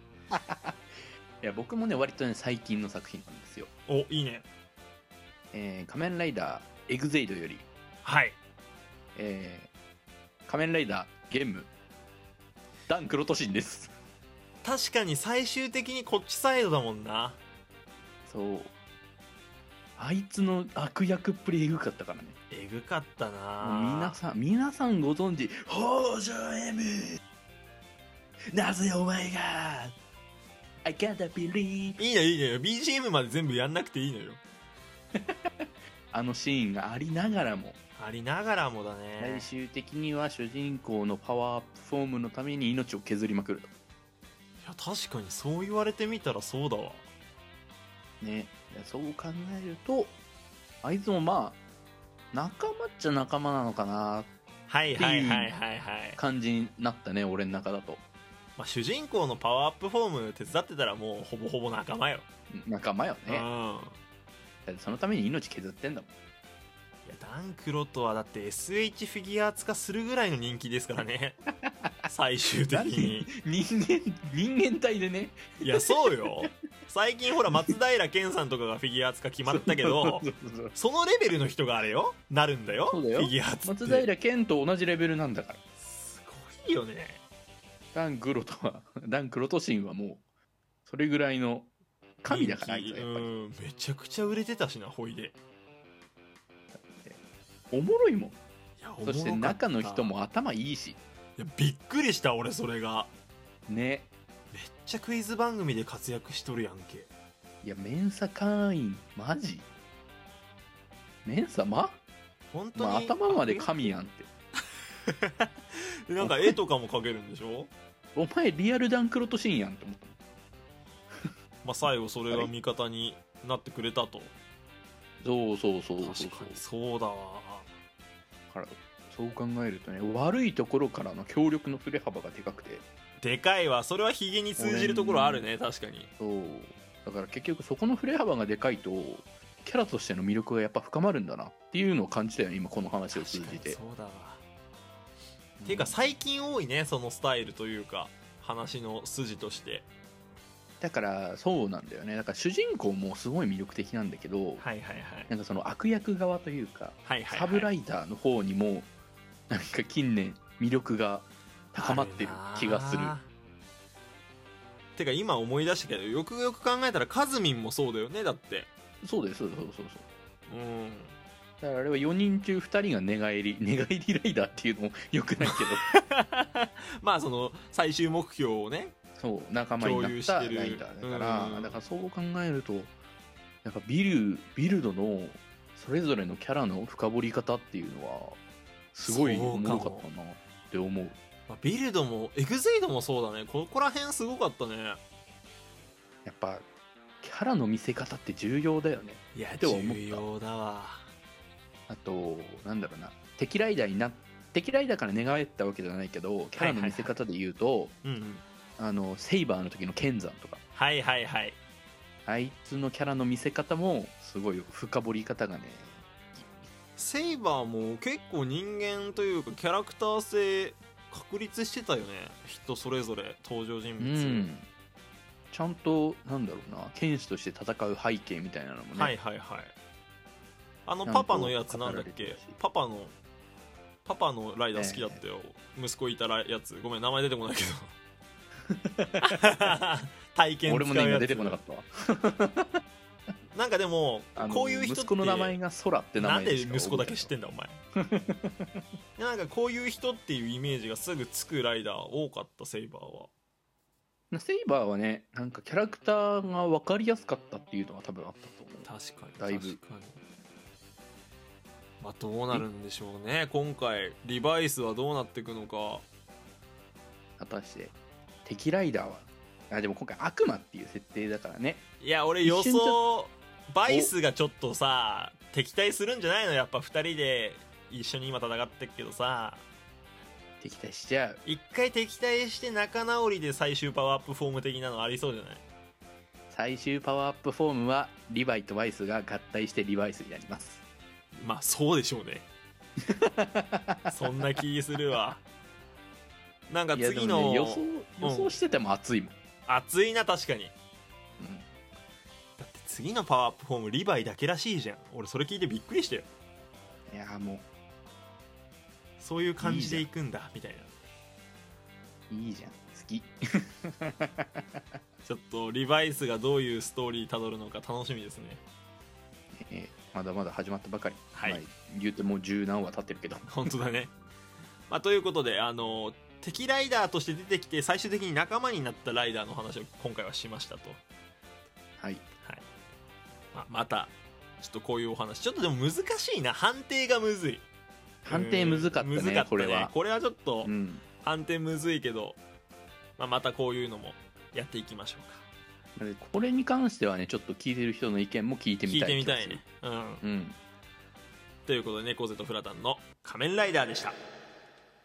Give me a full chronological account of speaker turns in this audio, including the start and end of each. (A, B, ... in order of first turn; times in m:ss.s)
0:00.3-0:00.8 A
0:01.4-0:03.7 A
0:03.9-0:04.5 B
0:05.5-0:07.7 A
0:08.0-0:08.4 B
0:09.2-0:09.7 A
0:10.5-0:11.7 A
0:12.9-0:13.9 A
0:14.6-0:17.4 B
0:18.3-0:18.7 A
0:20.0-0:22.4 A
0:22.5-0:24.2 B
0:23.6-0:27.2 A
0:28.5-0:30.0 A
0:30.8-0:32.0 A
0:32.0-0:34.4 B
0:35.2-0:37.8 A
0:38.0-0:39.5 B
0:39.2-0:43.7 A
0:44.6-0:47.0 B
0:48.2-0:50.2 A
0:50.8-0:51.6 A
0:52.3-0:54.3 A
0:54.7-0:56.2 B
0:55.0-0:55.6 A
0:56.2-0:58.0 A
0:58.6-1:02.3 B
1:02.5-1:03.5 A
1:03.3-1:04.0 B
1:04.7-1:06.1 A
1:07.1-1:11.4 B
1:11.6-1:12.1 A
1:12.1-1:13.3 B
1:12.7-1:16.5 A
1:15.6-1:24.1 B
1:19.5-1:20.7 A
1:22.9-1:25.6 A
1:25.8-1:27.2 B
1:27.9-1:30.2 A
1:30.9-1:31.7 A
1:32.2-1:33.3 A
1:32.3-1:35.4 B
1:36.7-1:37.2 A
1:37.7-1:38.4 A
1:38.8-1:40.1 B
1:39.0-1:41.0 A
1:41.4-1:43.1 B
1:43.7-1:44.1 A
1:44.5-1:47.1 B
1:47.6-1:49.7 A
1:51.2-1:52.0 A
1:52.5-1:53.9 B
1:52.8-1:54.3 A
1:55.1-1:57.7 B
1:56.2-1:56.6 A
1:58.2-2:00.2 A
2:01.6-2:04.3 B
2:05.2-2:06.6 A
2:06.0-2:07.7 B
2:08.5-2:12.9 A
2:13.2-2:16.1 B
2:14.6-2:15.5 A
2:16.2-2:23.8 A
2:23.1-2:24.4 B
2:25.6-2:26.1 A
2:25.7-2:29.9 B
2:30.8-2:34.6 A
2:34.6-2:35.3 B
2:35.3-2:38.9 A
2:37.1-2:37.7 B
2:39.5-2:43.2 A
2:41.8-2:43.3 B
2:45.0-2:48.7 B
2:49.0-2:50.1 A
2:50.5-2:51.2 B
2:51.6-2:55.9 A
2:55.4-2:58.9 B
2:59.2-3:02.9 A
2:59.8-3:01.8 B
3:03.6-3:08.4 A
3:08.9-3:11.2 A
3:09.1-3:10.0 B
3:11.5-3:15.0 B
3:16.2-3:16.7 A
3:17.2-3:20.2 A
3:19.4-3:21.0 B
3:21.9-3:28.0 A
3:26.6-3:27.1 B
3:28.0-3:28.4 B
3:28.8-3:30.6 A
3:30.8-3:31.6 B
3:32.3-3:36.5 A
3:37.0-3:44.5 B
3:44.0-3:44.7 A
3:45.5-3:49.1 A
3:49.0-3:49.7 B
3:50.9-3:53.2 B
3:51.1-3:52.6 A
3:54.0-3:57.9 B
3:54.8-3:55.2 A
3:58.7-3:59.8 A
3:59.2-4:01.6 B
4:00.7-4:02.7 A
4:03.5-4:05.6 B
4:04.4-4:07.3 A
4:06.2-4:07.8 B
4:08.0-4:08.8 A
4:09.2-4:13.3 B
4:14.3-4:19.8 A
4:18.8-4:20.2 B
4:22.0-4:26.1 B
4:27.4-4:31.8 A
4:32.0-4:39.6 B
4:32.4-4:33.0 A
4:33.9-4:34.1 A
4:40.6-4:41.4 A
4:41.4-4:45.6 B
4:46.5-4:50.8 A
4:51.4-4:52.5 B
4:53.1-4:54.3 A
4:54.1-4:55.4 B
4:56.7-4:58.6 B
4:56.9-4:59.4 A
4:59.7-5:00.7 B
5:01.4-5:01.7 A
5:02.6-5:06.3 B
5:07.1-5:07.7 A
5:09.2-5:10.9 B
5:09.6-5:10.1 A
5:12.3-5:14.8 A
5:15.3-5:18.6 B
5:19.6-5:23.5 A
5:21.3-5:21.6 B
5:23.5-5:24.1 B
5:24.9-5:31.0 B
5:32.0-5:32.2 A
5:33.5-5:37.6 B
5:38.2-5:39.9 A
5:38.3-5:42.4 B
5:40.6-5:41.0 A
5:43.2-5:45.4 B
5:46.0-5:49.6 A
5:48.8-5:50.2 B
5:50.2-5:50.6 A
5:51.7-5:54.2 B